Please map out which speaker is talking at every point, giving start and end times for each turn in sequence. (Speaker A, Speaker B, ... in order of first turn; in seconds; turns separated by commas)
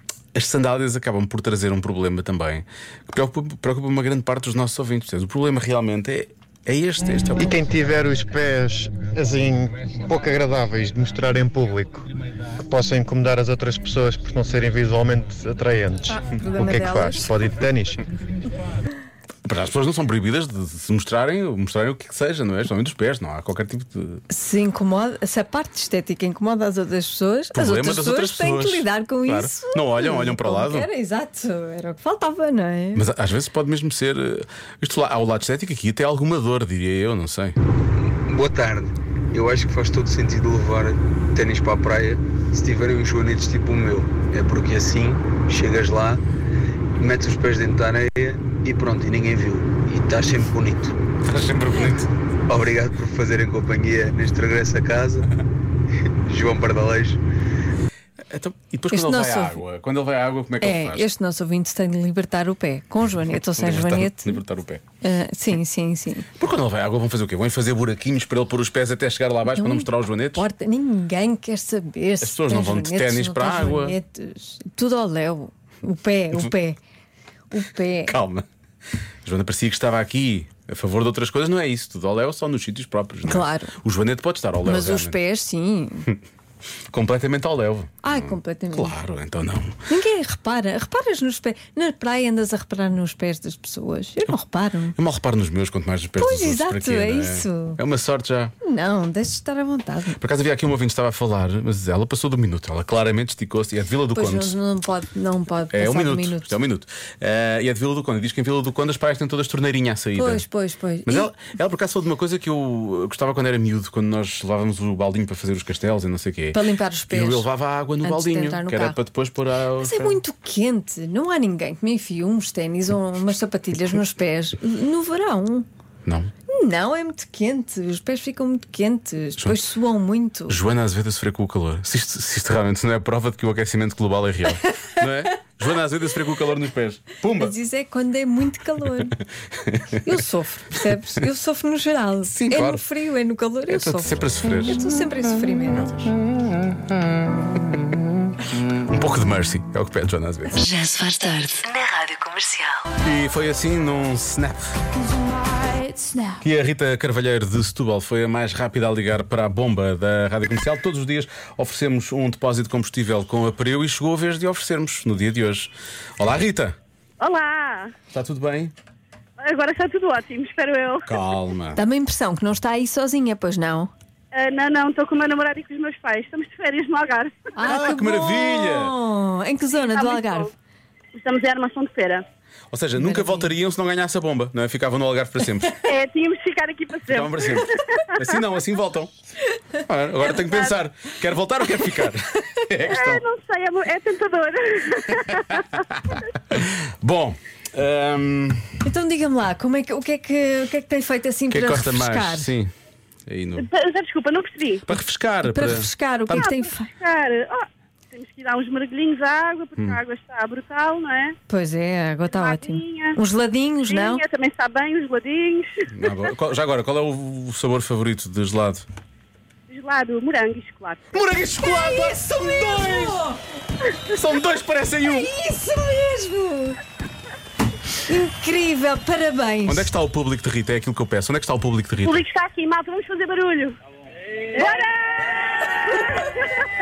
Speaker A: 0.3-7.5, Speaker B: 7.4-12.1, Speaker B: 12.7-18.0, Speaker C: 16.1-17.6, Speaker A: 19.5-24.2, Speaker C: 24.3-33.0, Speaker A: 27.5-30.9, Speaker A: 33.0-37.6, Speaker D: 38.2-46.2, Speaker D: 47.0-51.0, Speaker A: 51.2-52.1, Speaker D: 52.5-55.3, Speaker D: 56.3-57.2, Speaker A: 58.3-61.1, Speaker C: 58.9-59.6, Speaker C: 60.6-64.4, Speaker A: 63.6-64.8, Speaker C: 65.0-66.3, Speaker A: 66.4-70.5, Speaker C: 69.5-76.8, Speaker A: 72.2-74.0, Speaker C: 77.5-78.2, Speaker A: 78.1-78.5, Speaker A: 79.2-85.2, Speaker C: 83.3-83.8, Speaker C: 84.7-86.1, Speaker A: 86.9-89.8, Speaker C: 88.0-89.0, Speaker C: 89.9-95.0, Speaker A: 95.0-98.5, Speaker C: 96.2-97.8, Speaker C: 98.6-100.2, Speaker A: 100.2-104.6, Speaker C: 104.1-106.5, Speaker A: 105.7-110.5, Speaker C: 110.2-111.3, Speaker A: 111.1-120.2, Speaker C: 116.5-117.5, Speaker C: 118.0-119.0, Speaker C: 119.8-125.7, Speaker A: 126.0-126.3, Speaker C: 126.5-130.6, Speaker A: 129.4-129.6, Speaker A: 130.5-137.6, Speaker C: 137.4-139.2, Speaker A: 139.6-140.0, Speaker C: 140.0-146.0, Speaker A: 142.3-142.8, Speaker A: 143.7-144.8, Speaker A: 145.8-146.2, Speaker A: 148.7-150.6, Speaker E: 150.6-152.9, Speaker A: 153.0-154.8, Speaker A: 156.4-166.8, Speaker F: 167.2-167.9, Speaker A: 168.1-168.7, Speaker F: 169.4-171.1, Speaker A: 171.1-171.8, Speaker C: 171.8-173.9, Speaker F: 174.3-177.4, Speaker C: 177.6-180.5, Speaker A: 177.6-178.9, Speaker F: 179.7-180.5, Speaker F: 181.1-182.2, Speaker A: 182.7-185.8, Speaker C: 183.0-183.5, Speaker F: 185.8-188.0, Speaker A: 187.1-189.1, Speaker A: 189.8-193.2, Speaker F: 190.4-190.7, Speaker F: 192.9-195.8, Speaker A: 196.1-198.7, Speaker C: 198.9-202.5, Speaker A: 201.5-202.7, Speaker A: 203.3-203.7, Speaker F: 203.6-204.8, Speaker A: 204.9-206.5, Speaker C: 205.4-206.9, Speaker F: 206.3-211.4, Speaker C: 211.5-214.2, Speaker F: 212.3-213.2, Speaker F: 213.8-215.7, Speaker A: 215.9-218.8, Speaker F: 219.7-221.1, Speaker A: 221.1-223.2, Speaker C: 221.6-223.4, Speaker A: 224.1-225.3, Speaker C: 225.0-226.8, Speaker C: 228.1-229.9, Speaker A: 229.7-232.2, Speaker F: 232.0-233.8, Speaker F: 234.5-236.4